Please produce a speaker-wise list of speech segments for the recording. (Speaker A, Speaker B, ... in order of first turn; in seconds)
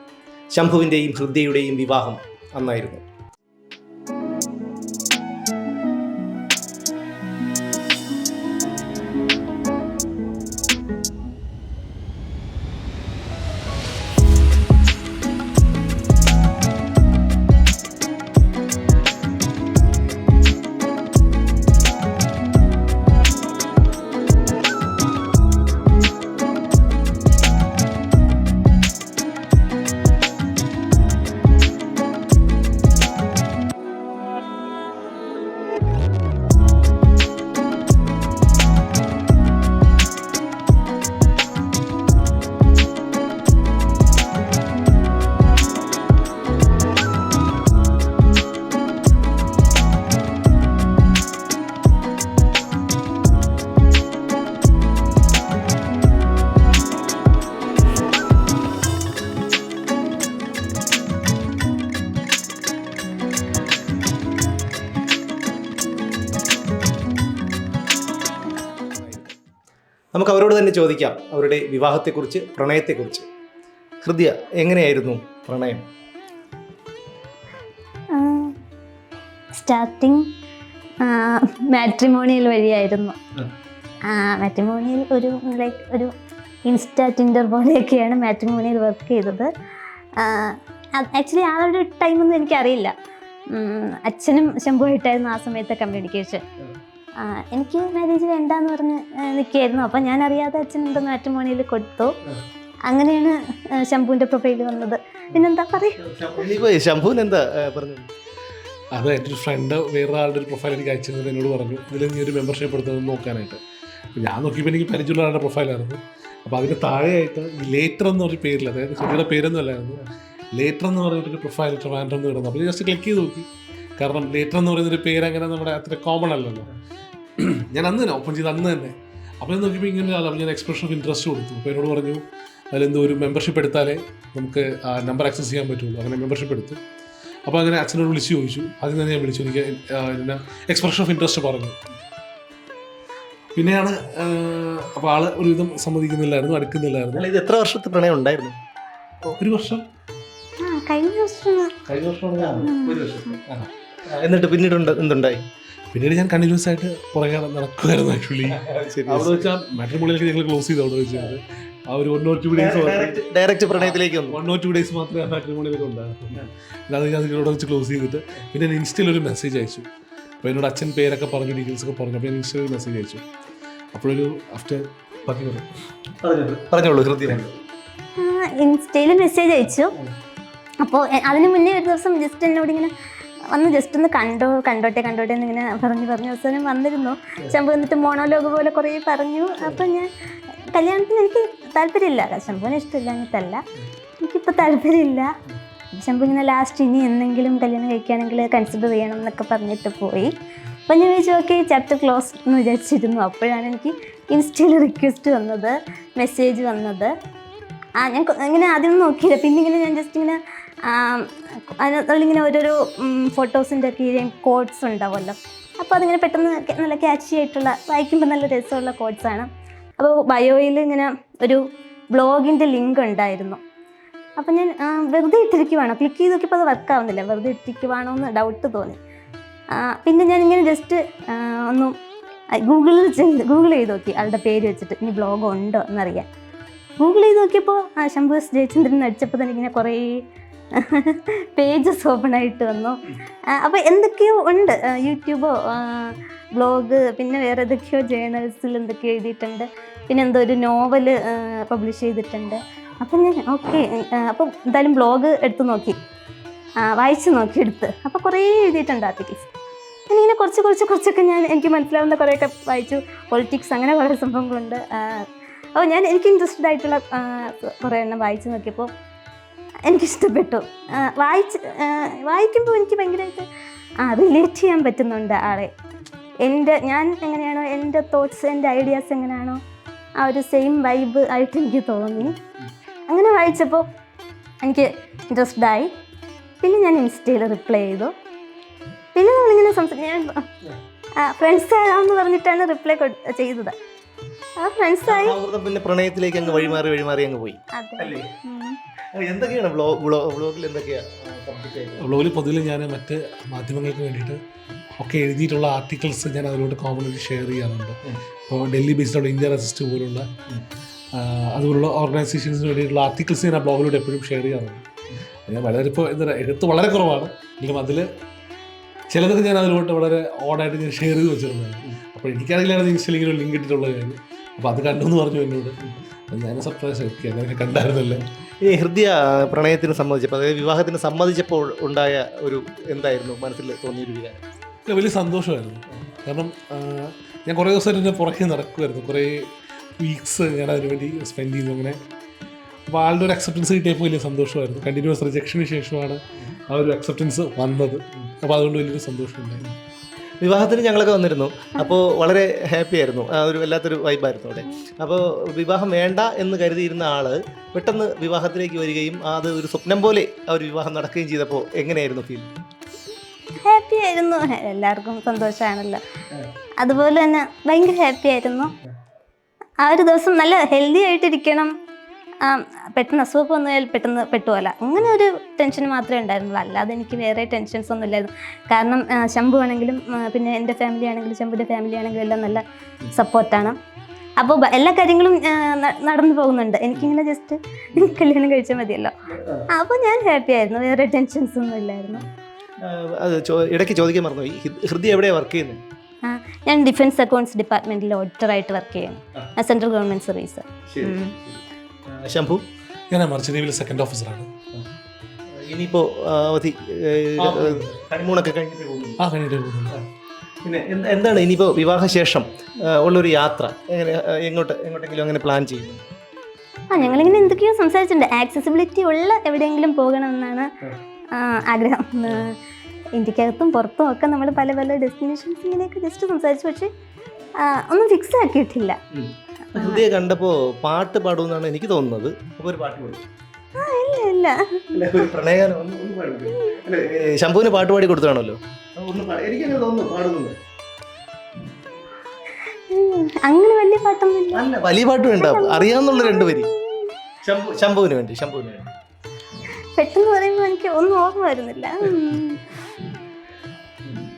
Speaker A: 0.5-3.0, 69.0-69.3, 70.1-73.2, 74.0-75.8, 106.0-108.1, 147.1-148.6, 152.4-155.4, 158.5-159.5, 162.6-164.4, 176.2-177.5, 295.1-298.3, 299.1-302.1, 328.6-334.4, 350.4-362.5, 389.3-389.6, 392.8-395.8, 400.9-402.6, 405.6-409.2, 410.6-416.0, 416.9-417.6, 429.1-433.2, 434.9-440.5, 444.5-446.7, 447.4-448.9
Speaker B: 78.1-78.6, 79.5-80.2, 81.0-83.2, 84.0-86.1, 86.6-89.5, 90.2-92.9, 93.5-96.4, 97.2-102.1, 102.9-106.0, 150.6-151.7, 152.6-153.3, 178.2-179.9, 180.8-182.9, 183.5-190.1, 190.7-193.6, 194.2-195.3, 195.9-200.3, 200.9-207.1, 208.0-221.6, 222.1-223.6, 224.4-229.0, 229.7-231.9, 232.5-236.3, 237.0-240.2, 240.7-243.0, 243.5-256.0, 256.8-259.5, 260.1-268.9, 269.8-273.5, 274.0-275.7, 276.4-279.6, 280.2-282.4, 283.1-283.9, 284.6-285.9, 286.6-288.1, 289.1-290.4, 291.2-293.7, 294.6-295.4, 296.4-296.8, 297.7-298.8, 363.6-366.0, 366.8-368.7, 369.8-371.7, 372.4-383.8, 384.4-389.1, 389.7-392.2, 396.2-401.3, 416.9-420.7, 421.3-422.6, 423.1-426.9, 427.6-429.0, 429.7-430.0, 433.8-434.8, 436.5-436.8, 442.9-444.6, 445.4-447.1, 449.9-452.6
Speaker C: 108.9-113.6, 114.2-120.0, 120.5-123.5, 124.0-126.7, 127.4-136.8, 137.4-141.8, 143.5-147.3, 149.3-149.8, 151.8-152.7, 155.9-163.2, 163.8-169.8, 170.4-173.2, 173.9-175.7, 302.0-304.4, 305.0-310.3, 311.1-314.8, 315.5-318.1, 319.1-325.8, 326.3-328.2, 334.9-339.4, 340.0-342.0, 342.9-349.6, 403.1-404.5, 407.4-407.9, 409.2-410.0